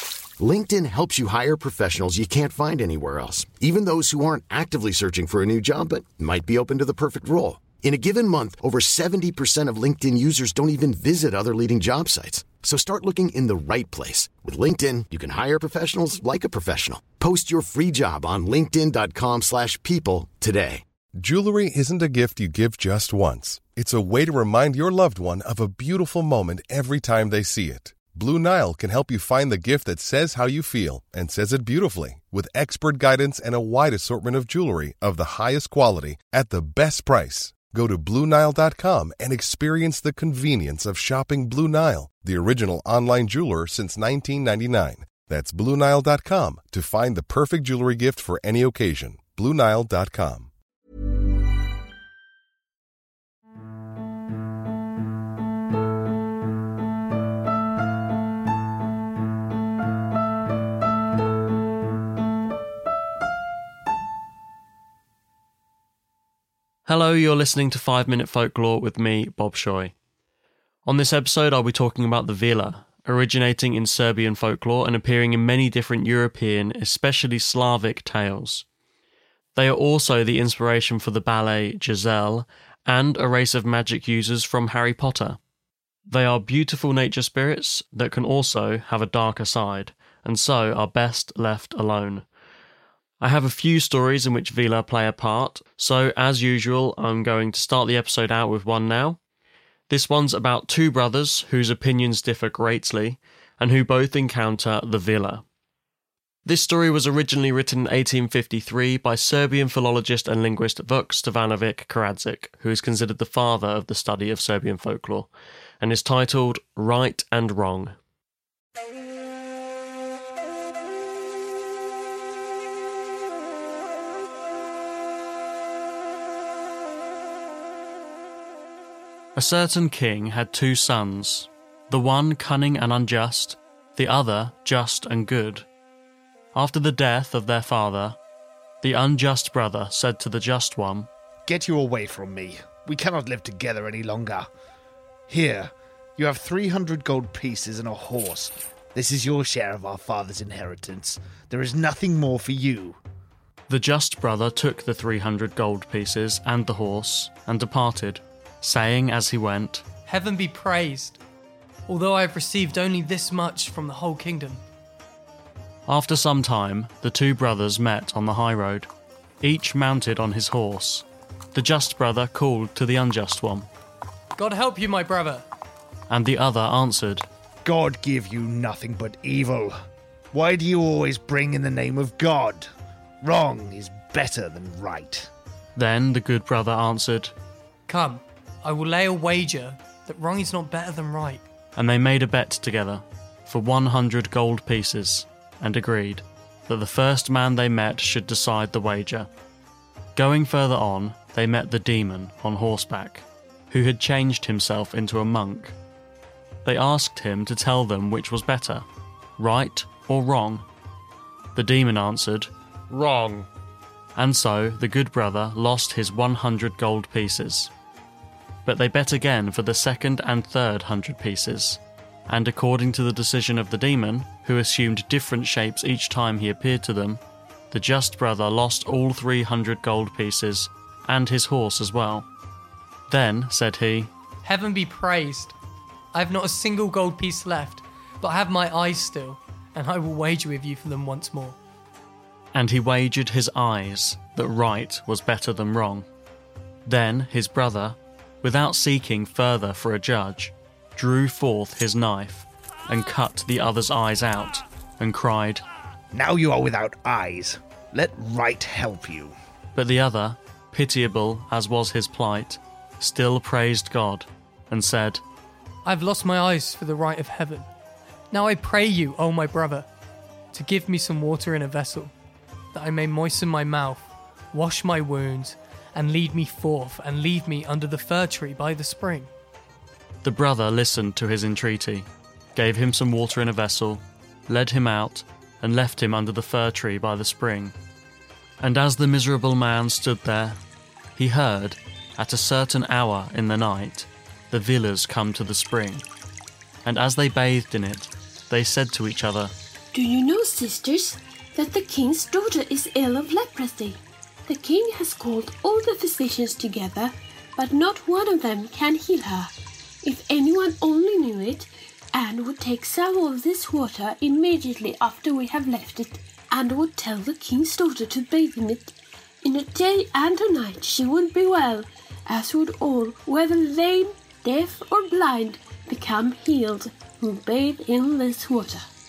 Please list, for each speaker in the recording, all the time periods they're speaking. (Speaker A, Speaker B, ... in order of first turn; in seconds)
Speaker A: 0.4-20.8
Speaker B: 21.2-50.5
Speaker C: 66.9-69.9, 70.9-78.7, 79.5-85.4, 86.1-92.3, 93.2-99.2, 99.9-105.4, 106.5-118.0, 129.3-135.7, 136.5-138.2, 138.8-141.1, 153.7-159.9, 165.9-168.9, 169.4-173.7, 176.1-177.3, 185.8-187.3, 191.8-199.3, 200.2-205.8, 206.7-208.9, 209.4-210.7, 211.6-213.5, 214.2-217.7, 218.7-227.2, 227.7-232.3, 233.1-234.1, 242.5-246.1, 246.9-255.6, 259.8-265.2, 280.2-287.8, 288.6-290.6, 291.2-296.1, 296.9-299.5
Speaker D: 141.5-144.5, 145.3-153.0, 177.6-179.8, 180.3-182.7, 183.2-185.3, 256.1-259.4
Speaker E: 160.1-161.2, 161.9-164.6, 174.3-175.5, 187.9-191.4, 234.4-235.6, 236.1-241.6, 265.9-267.7, 268.3-269.9, 270.5-272.1, 272.7-279.3
Speaker F: 299.9-309.5, 310.0-328.9